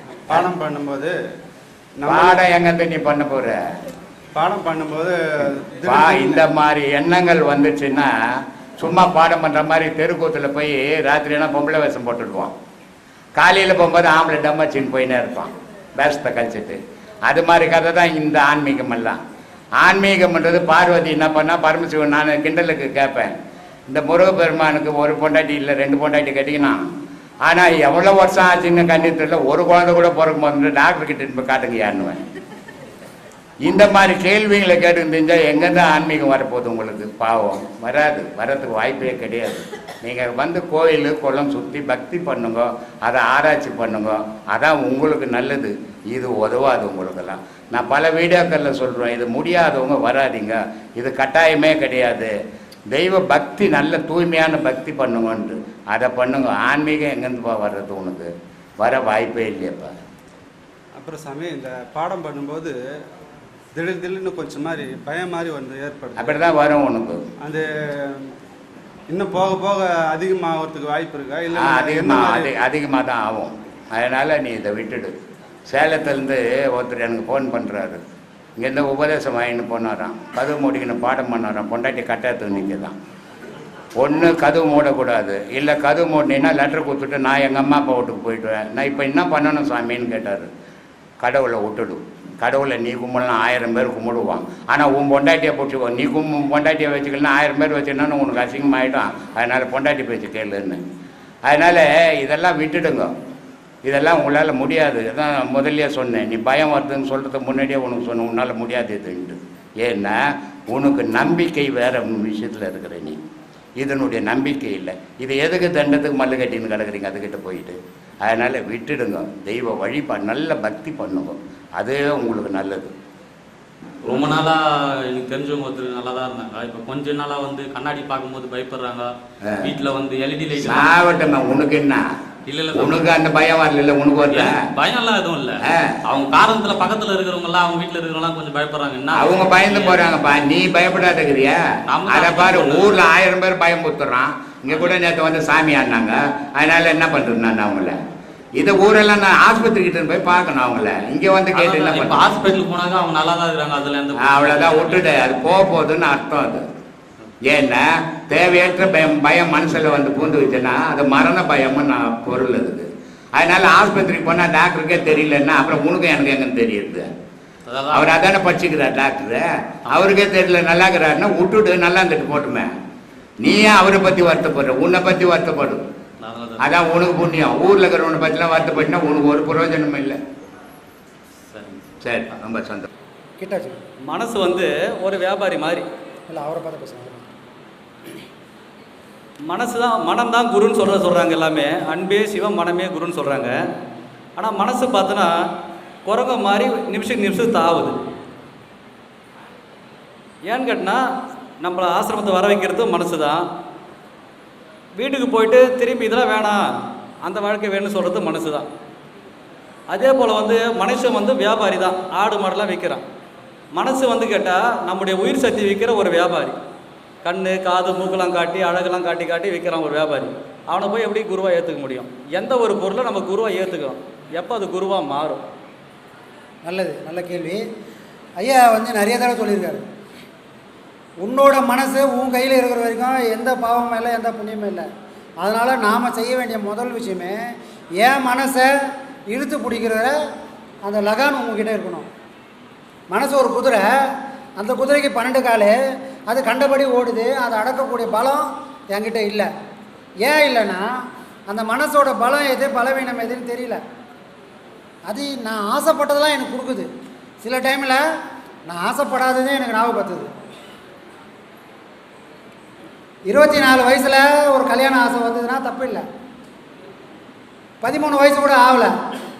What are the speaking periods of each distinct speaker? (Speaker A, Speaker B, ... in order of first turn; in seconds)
Speaker A: 0.3-1.1, 2.0-2.4, 4.3-6.4, 61.0-62.8, 63.7-66.4, 67.4-68.3, 69.1-72.5
Speaker B: 2.0-3.6, 5.8-12.5, 13.3-19.2, 19.8-23.3, 23.9-26.8, 27.4-32.2, 33.6-52.3, 52.9-60.0, 66.2-67.2, 71.5-78.0, 78.6-83.0, 84.0-90.5, 91.2-100.8, 101.4-103.1, 103.8-113.2, 113.8-122.9, 129.4-129.7, 130.6-132.0, 132.7-134.6, 135.6-136.0, 139.1-148.0, 148.6-152.3, 154.2-156.7, 157.4-167.1, 167.9-172.7, 173.4-175.8, 176.6-180.2, 182.0-182.9
Speaker C: 124.0-129.1, 129.6-130.9, 132.4-133.0, 134.3-140.1, 141.9-143.0, 151.5-155.1, 167.7-168.1, 176.2-176.7, 181.5-181.8
Speaker D: 183.4-183.8, 186.3-187.2, 226.6-227.6, 228.4-229.8, 231.2-234.9, 235.4-237.4, 238.0-238.7, 239.3-240.2, 240.8-242.1, 243.1-245.8, 246.3-249.5, 250.2-250.9, 251.5-253.8, 255.1-256.9, 257.4-258.0, 258.7-260.3, 263.3-266.0, 267.8-268.9
Speaker E: 184.1-185.8, 189.5-193.7, 194.3-195.3, 196.1-198.0, 200.4-201.0, 201.6-203.4, 204.9-206.7, 207.2-208.7, 209.9-213.0, 213.7-216.6, 217.2-225.4